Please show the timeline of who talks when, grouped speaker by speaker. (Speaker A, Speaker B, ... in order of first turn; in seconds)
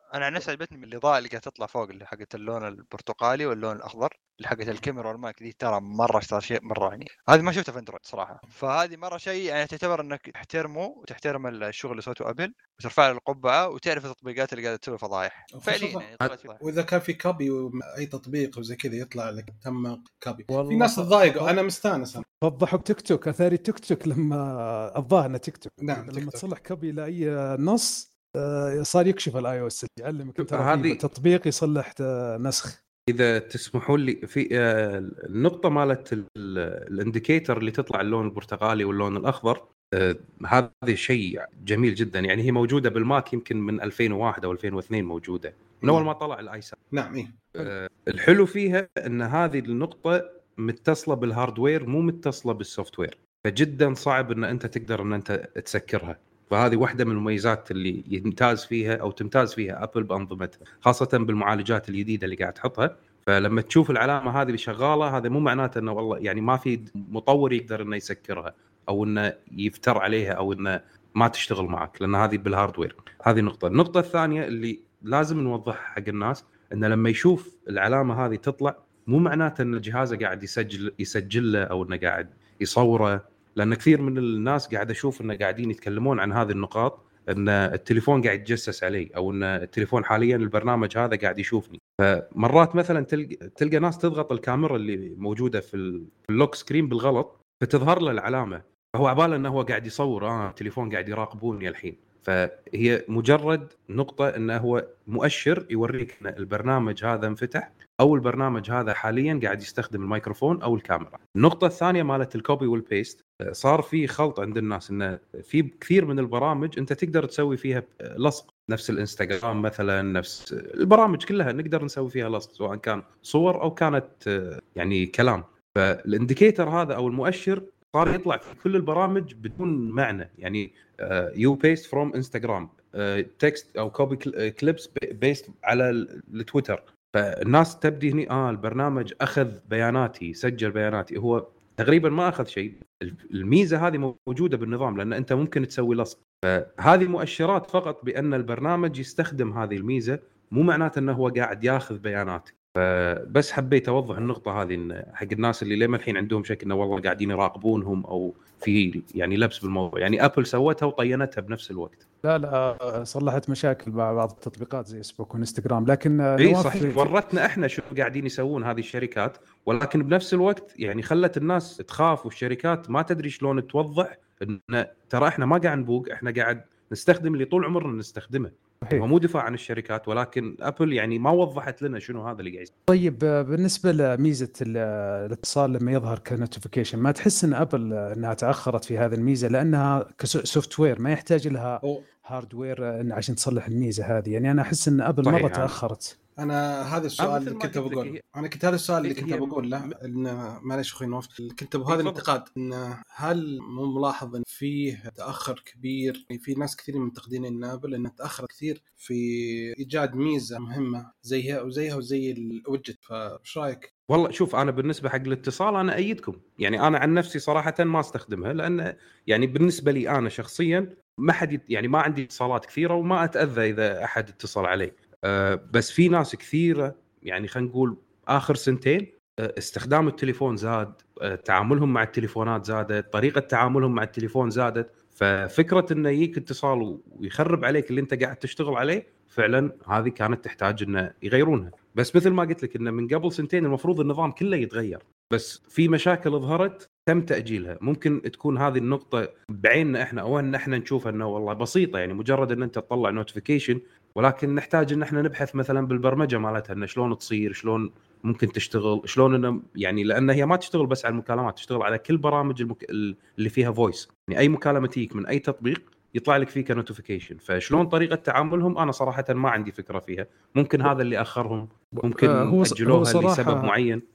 Speaker A: 0.1-16.6
Speaker B: 15.5-16.1, 16.6-22.2, 25.8-26.4, 45.8-46.1, 46.9-47.4, 196.4-213.9
Speaker C: 20.5-21.5, 22.4-32.8, 162.2-167.1, 182.9-196.1, 272.0-273.7
Speaker D: 30.4-31.0, 33.1-46.8, 47.5-162.0, 166.4-182.7, 195.2-195.8, 197.2-198.2, 199.0-199.9, 201.9-202.2, 214.1-274.0